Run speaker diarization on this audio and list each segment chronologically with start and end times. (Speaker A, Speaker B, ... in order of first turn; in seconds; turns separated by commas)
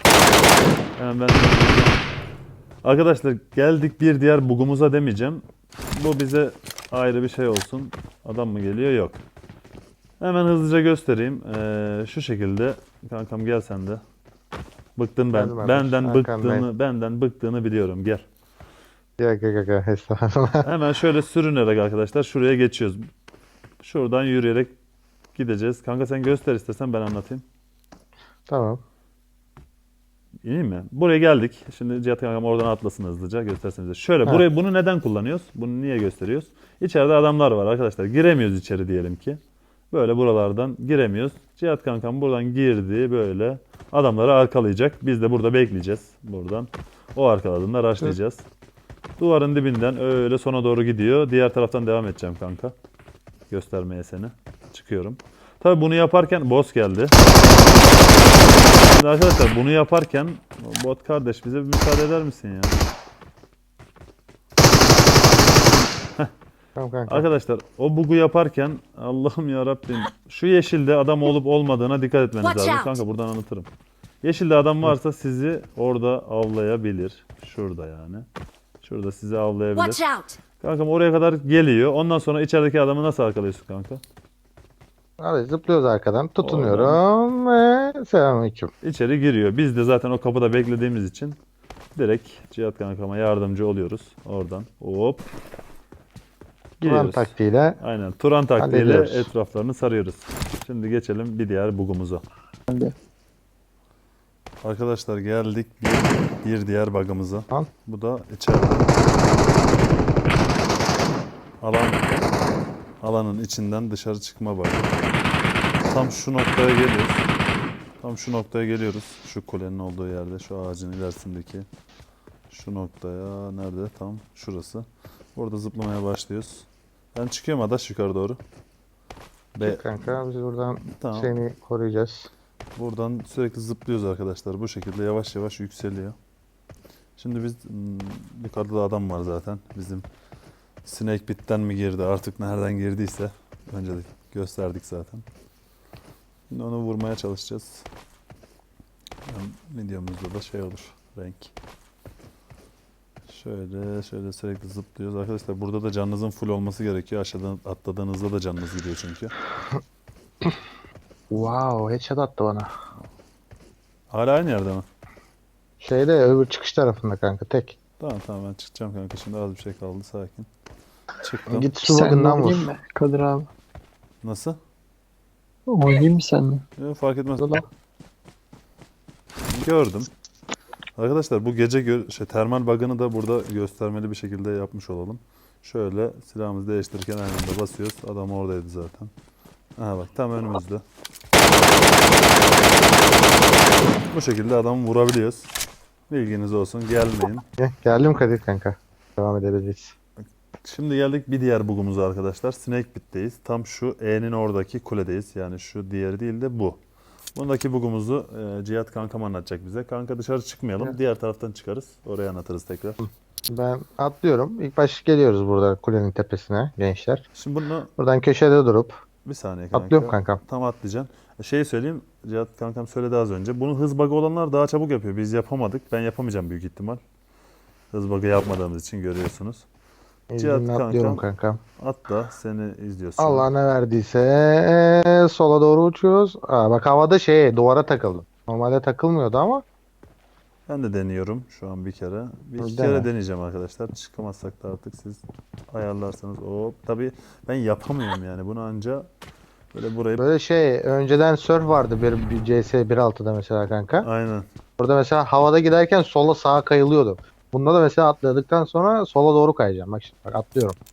Speaker A: 1.0-2.0, Speaker A: 2.8-9.2, Speaker A: 10.2-14.0, Speaker A: 14.9-18.2, Speaker B: 15.3-16.6, Speaker B: 19.2-20.7, Speaker A: 20.6-23.1, Speaker A: 23.8-24.7, Speaker A: 25.3-27.4, Speaker B: 28.5-28.8, Speaker A: 30.4-39.4, Speaker A: 39.9-48.4, Speaker A: 49.2-52.7, Speaker A: 53.5-57.2, Speaker A: 58.8-62.9, Speaker B: 66.8-67.2, Speaker A: 67.1-73.7, Speaker A: 74.2-78.2, Speaker A: 78.8-84.0, Speaker B: 85.2-88.7, Speaker A: 86.4-87.0, Speaker A: 88.8-91.4, Speaker A: 91.9-95.3, Speaker B: 96.8-97.8, Speaker A: 96.8-102.2, Speaker B: 98.6-99.3, Speaker C: 102.7-102.9, Speaker A: 104.6-109.0, Speaker A: 111.6-112.2, Speaker A: 113.0-114.9, Speaker A: 115.8-117.2, Speaker A: 118.0-121.7, Speaker A: 122.5-128.4, Speaker A: 129.5-130.2, Speaker B: 129.6-132.3, Speaker A: 130.8-131.3, Speaker A: 132.8-136.2, Speaker A: 137.2-140.0, Speaker A: 140.8-145.2, Speaker A: 146.5-147.8, Speaker A: 149.2-151.5, Speaker A: 153.3-159.3, Speaker B: 161.3-162.7, Speaker A: 164.1-164.8, Speaker B: 165.8-167.8, Speaker A: 168.0-170.5, Speaker A: 171.2-171.7, Speaker B: 171.5-172.7, Speaker C: 171.8-173.5, Speaker A: 174.2-174.6, Speaker C: 175.7-176.6, Speaker A: 176.8-177.6, Speaker A: 179.4-180.1, Speaker A: 180.9-189.1, Speaker A: 189.8-190.8, Speaker A: 194.1-195.5, Speaker A: 196.1-197.4, Speaker B: 197.6-199.9, Speaker A: 200.6-206.8, Speaker A: 207.3-213.1, Speaker B: 213.5-217.2, Speaker A: 217.3-217.9, Speaker B: 218.0-219.0, Speaker A: 219.2-227.0, Speaker B: 219.7-220.4, Speaker A: 227.9-229.7, Speaker B: 230.3-231.6, Speaker A: 230.4-231.2, Speaker A: 231.8-233.5, Speaker B: 233.2-239.6, Speaker A: 240.7-249.1, Speaker B: 242.6-243.1, Speaker A: 249.7-250.2, Speaker B: 250.2-254.1, Speaker A: 254.0-254.4, Speaker B: 254.8-260.8